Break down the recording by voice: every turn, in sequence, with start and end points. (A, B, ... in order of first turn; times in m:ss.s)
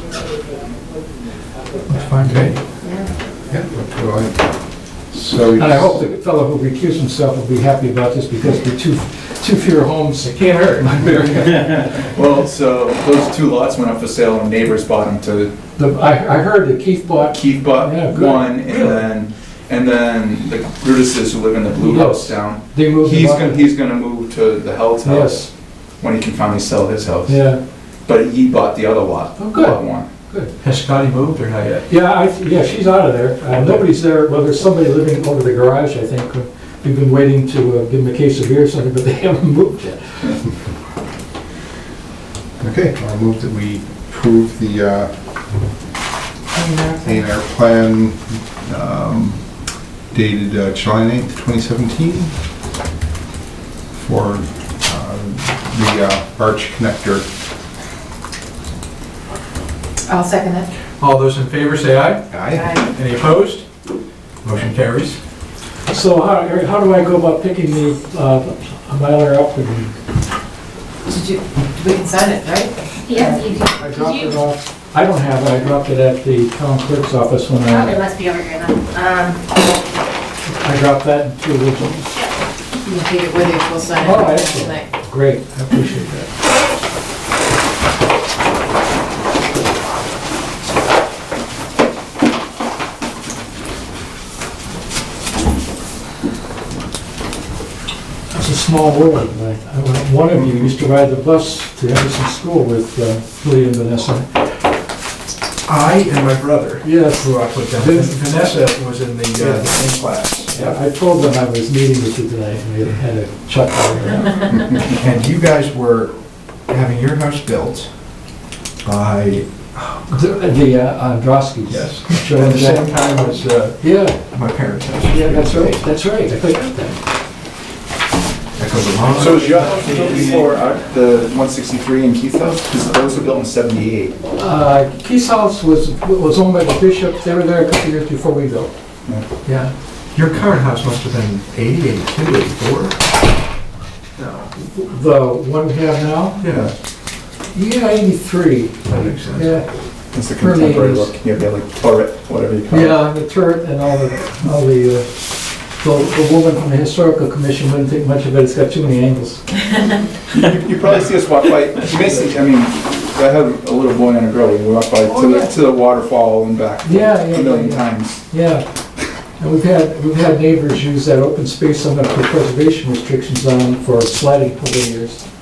0:01.9-0:02.6 A
0:02.2-0:02.5 B
0:03.5-0:04.5 B
0:05.1-0:06.0 B
0:05.6-0:11.9 C
0:10.2-0:11.3 A
0:12.0-0:15.5 D
0:15.8-0:19.0 C
0:17.3-0:25.5 D
0:21.8-0:23.6 C
0:25.0-0:25.5 C
0:26.0-0:27.5 D
0:27.2-0:27.6 C
0:28.0-0:30.1 D
0:29.4-0:30.5 C
0:30.6-0:31.9 A
0:31.9-0:40.5 C
0:33.5-0:33.8 A
0:42.6-0:45.1 B
0:46.5-0:47.2 E
0:47.0-0:49.4 B
0:50.1-0:52.3 B
0:53.9-0:57.2 B
1:00.1-1:00.7 E
1:01.0-1:03.6 A
1:02.3-1:02.7 B
1:02.5-1:02.8 E
1:04.4-1:05.2 A
1:05.9-1:10.0 C
1:11.0-1:13.4 E
1:13.1-1:14.4 F
1:13.2-1:18.0 C
1:17.7-1:18.8 F
1:18.9-1:19.4 E
1:20.5-1:22.1 C
1:22.8-1:24.9 E
1:24.0-1:26.3 C
1:38.3-1:44.3 C
1:45.6-1:50.8 A
1:46.8-1:48.2 C
1:49.4-1:49.6 C
1:50.5-1:54.5 C
1:54.8-1:56.2 A
1:56.7-1:57.9 A
1:58.8-2:00.0 A
2:00.1-2:03.0 C
2:01.7-2:07.0 A
2:03.8-2:04.2 C
2:05.1-2:06.6 C
2:08.6-2:10.4 A
2:09.1-2:14.2 D
2:09.4-2:10.5 C
2:14.4-2:18.7 C
2:19.4-2:19.7 C
2:20.1-2:23.0 A
2:24.2-2:24.5 A
2:24.6-2:26.4 C
2:26.4-2:26.7 A
2:27.5-2:29.7 C
2:28.8-2:29.6 A
2:30.1-2:33.1 D
2:30.4-2:31.1 C
2:32.7-2:35.1 C
2:35.8-2:39.6 C
2:40.3-2:48.2 D
2:45.0-2:45.5 C
2:46.8-2:48.6 C
2:49.4-2:55.2 C